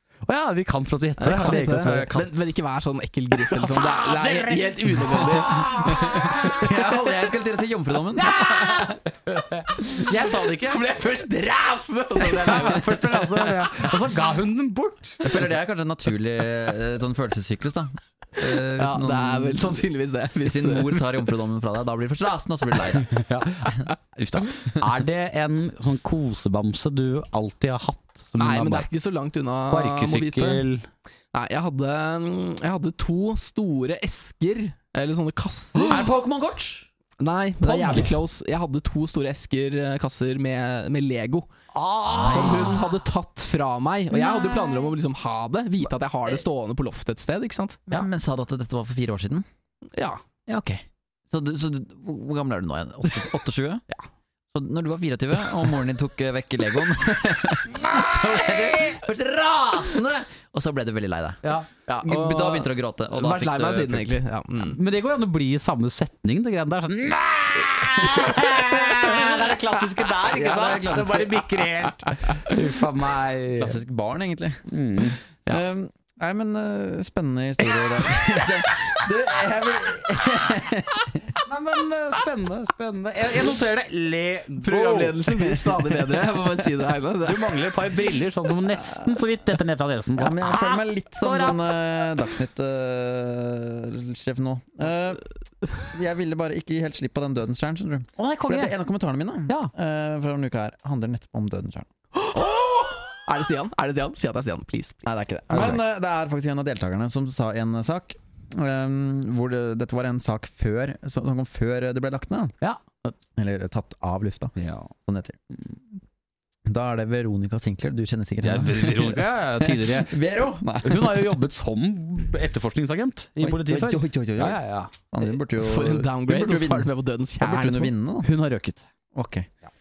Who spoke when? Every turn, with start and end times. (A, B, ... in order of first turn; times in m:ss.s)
0:00.2-0:02.1 A
0:01.2-0:06.3 B
0:01.8-0:02.3 C
0:03.4-0:06.9 A
0:05.8-0:08.5 C
0:08.2-0:10.9 A
0:09.8-0:13.6 B
0:12.2-0:15.3 A
0:15.2-0:19.8 C
0:18.8-0:21.1 B
0:20.4-0:23.1 C
0:23.1-0:28.9 A
0:28.4-0:30.6 B
0:29.7-0:30.9 A
0:31.3-0:36.0 B
0:35.8-0:36.9 C
0:37.2-0:41.5 B
0:37.6-0:38.1 A
0:41.7-0:42.8 A
0:42.1-0:42.8 C
0:42.2-0:47.9 B
0:44.1-0:44.9 C
0:47.9-0:49.4 C
0:50.5-0:53.8 C
0:54.5-1:01.4 C
0:57.7-0:59.0 A
1:01.4-1:01.7 A
1:01.9-1:04.8 B
1:02.0-1:04.1 C
1:04.6-1:13.8 A
1:10.3-1:11.5 C
1:13.6-1:14.6 C
1:14.7-1:15.2 A
1:15.5-1:21.2 C
1:21.4-1:25.7 A
1:24.6-1:27.6 B
1:27.2-1:31.7 A
1:30.2-1:35.2 C
1:35.9-1:41.9 C
1:38.2-1:38.8 A
1:42.1-1:45.7 B
1:45.0-1:52.5 C
1:52.6-1:53.1 A
1:53.4-1:55.4 C
1:54.6-1:54.9 A
1:56.6-2:01.3 C
1:58.4-2:00.2 A
2:00.8-2:04.9 A
2:03.4-2:08.3 C
2:05.5-2:07.9 B
2:08.2-2:08.8 A
2:09.1-2:09.5 C